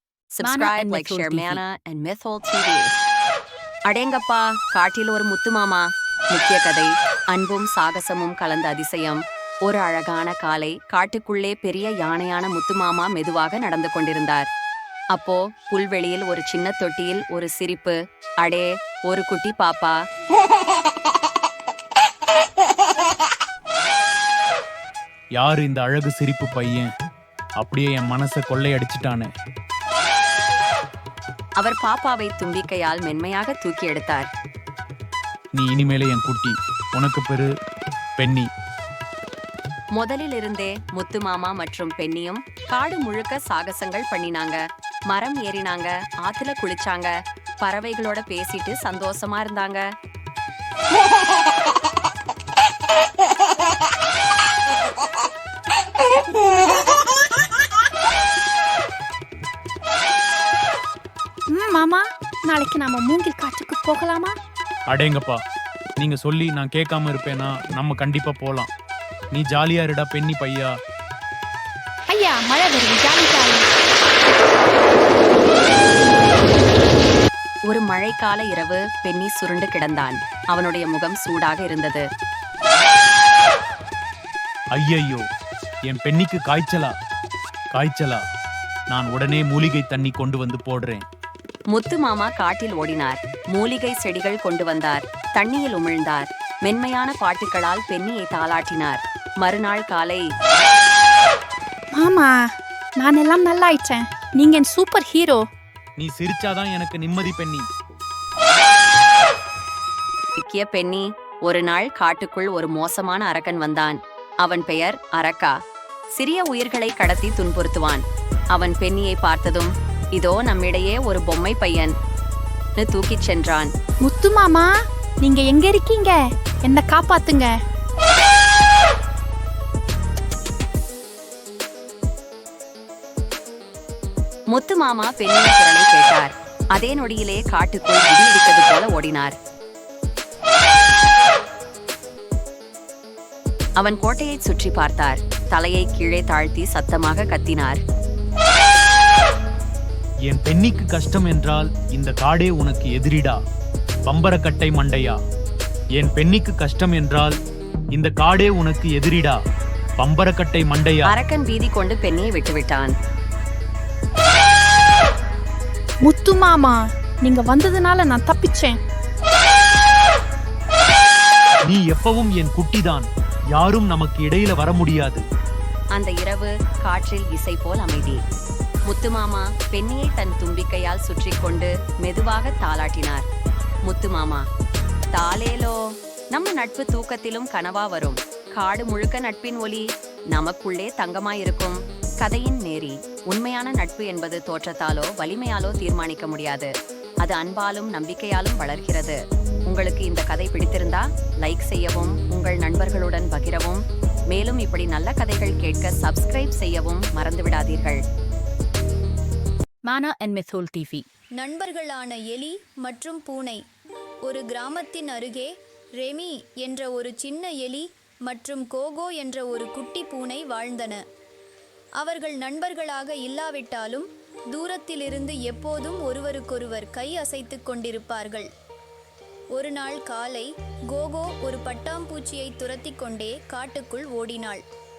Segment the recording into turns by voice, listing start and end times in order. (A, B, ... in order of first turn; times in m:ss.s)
0:00.4-0:02.9 A
0:00.4-0:01.6 B
0:03.9-0:14.5 A
0:15.1-0:20.0 A
0:25.4-0:26.9 C
0:27.6-0:29.3 C
0:31.6-0:34.3 A
0:35.6-0:37.5 C
0:38.2-0:38.5 C
0:40.0-0:49.8 A
1:01.5-1:04.4 D
1:04.9-1:05.4 C
1:06.0-1:08.7 C
1:09.3-1:10.7 C
1:12.1-1:13.7 D
1:17.7-1:22.0 A
1:24.7-1:25.2 C
1:25.9-1:26.9 C
1:27.7-1:28.2 C
1:28.9-1:31.0 C
1:31.7-1:40.3 A
1:41.9-1:45.4 D
1:46.0-1:47.6 C
1:50.4-1:55.5 A
1:56.2-2:01.9 A
2:02.8-2:03.7 A
2:04.0-2:04.7 D
2:05.2-2:07.5 D
2:14.5-2:19.4 A
2:23.8-2:27.8 A
2:30.3-2:33.4 C
2:34.1-2:35.2 C
2:36.0-2:37.3 C
2:37.9-2:39.4 C
2:40.0-2:41.1 C
2:41.1-2:42.9 A
2:46.0-2:48.8 D
2:51.7-2:55.2 C
2:55.9-2:58.2 A
2:58.9-3:03.2 A
3:03.8-3:04.4 A
3:05.1-3:05.8 A
3:06.3-3:16.7 A
3:17.2-3:28.0 A
3:29.9-3:31.1 B
3:31.4-3:33.6 E
3:34.2-3:41.0 E
3:42.0-3:48.5 E
3:49.5-3:54.6 E